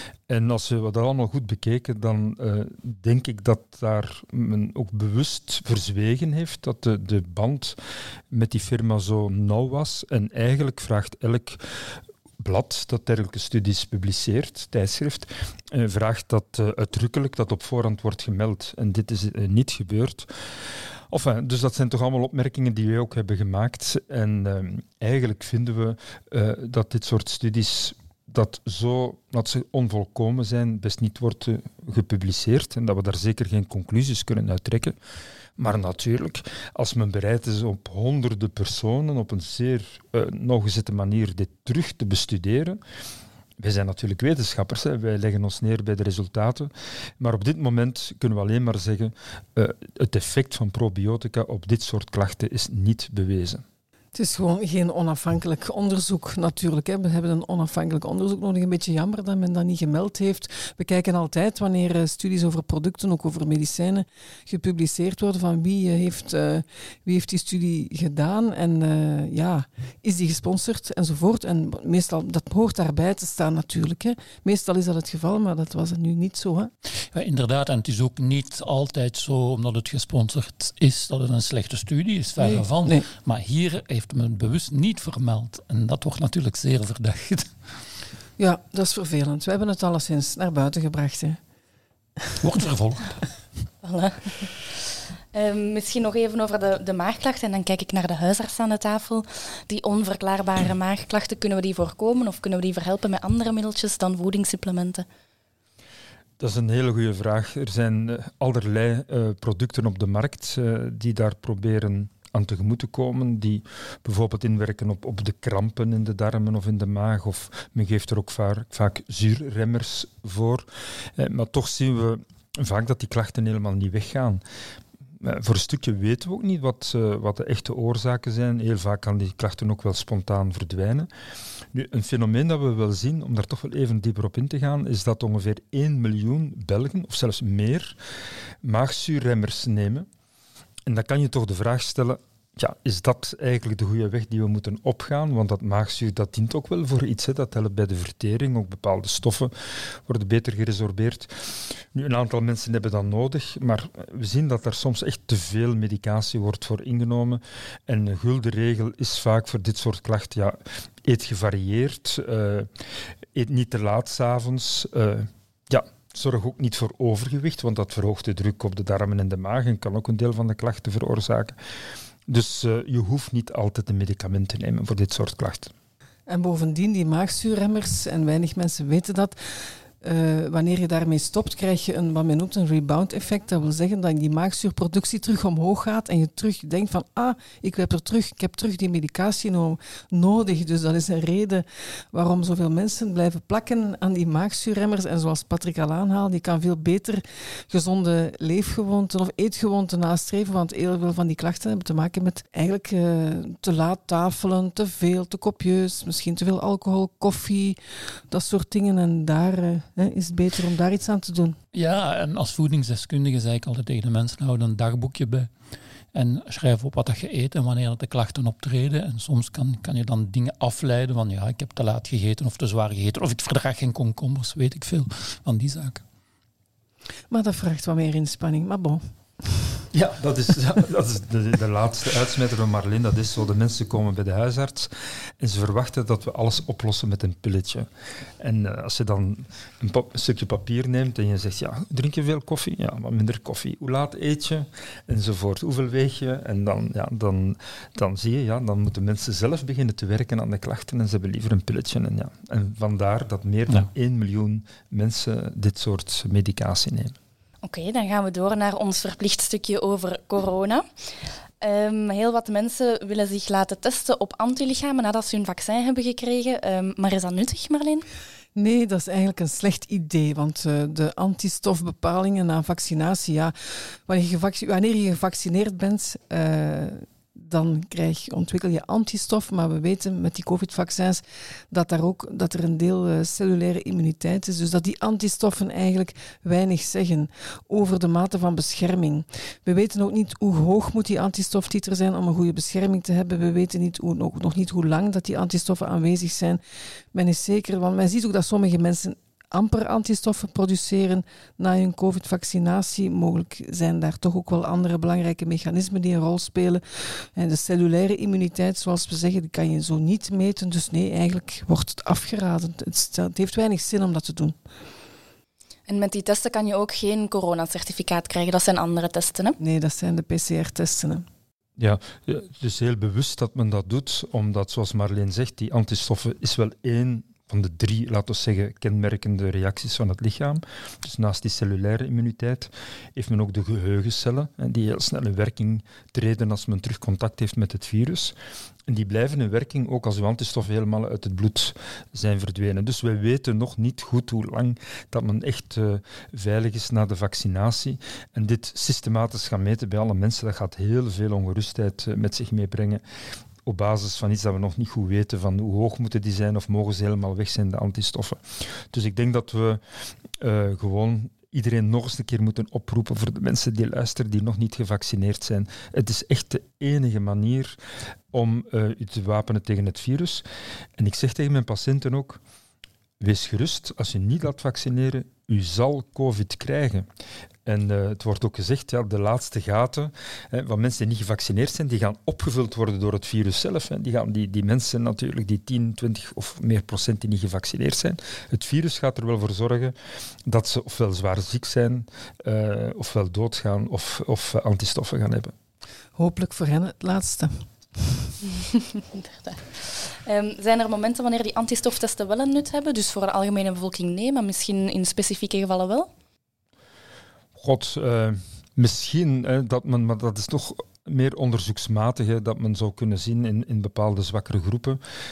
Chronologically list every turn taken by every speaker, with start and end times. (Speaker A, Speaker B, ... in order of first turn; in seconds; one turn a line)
Speaker A: 0.3-7.8
Speaker A: 8.3-20.3
Speaker A: 21.1-35.0
Speaker A: 35.6-42.8
Speaker A: 43.6-53.6
Speaker B: 54.1-76.7
Speaker C: 77.1-87.5
Speaker B: 82.4-83.0
Speaker B: 88.4-91.4
Speaker C: 92.4-93.2
Speaker D: 93.8-94.8
Speaker D: 95.3-105.0
Speaker A: 106.4-124.4
Speaker A: 125.2-131.1
Speaker A: 131.7-138.0
Speaker A: 138.6-140.1
Speaker A: 140.8-162.7
Speaker A: 163.3-171.6
Speaker A: 172.3-175.7
Speaker B: 176.3-179.4
Speaker B: 180.0-207.8
Speaker B: 208.3-211.6
Speaker C: 211.7-215.5
Speaker C: 216.1-226.0
Speaker B: 227.3-229.8
Speaker A: 229.9-237.9
Speaker A: 238.4-257.1
Speaker D: 257.6-260.8
Speaker D: 261.6-268.0
Speaker B: 268.5-296.6
Speaker B: 297.1-314.6
Speaker D: 315.9-319.6
Speaker B: 319.6-321.2
Speaker A: 321.8-338.4
Speaker A: 338.9-353.0
Speaker A: 353.6-359.8
Speaker A: 360.4-367.8
Speaker A: 368.3-370.4
Speaker A: 371.0-372.4
Speaker A: 373.2-377.1
Speaker A: 377.6-389.9
Speaker A: 390.4-395.5
Speaker B: 396.1-398.3
Speaker D: 398.5-406.1
Speaker A: 407.6-415.0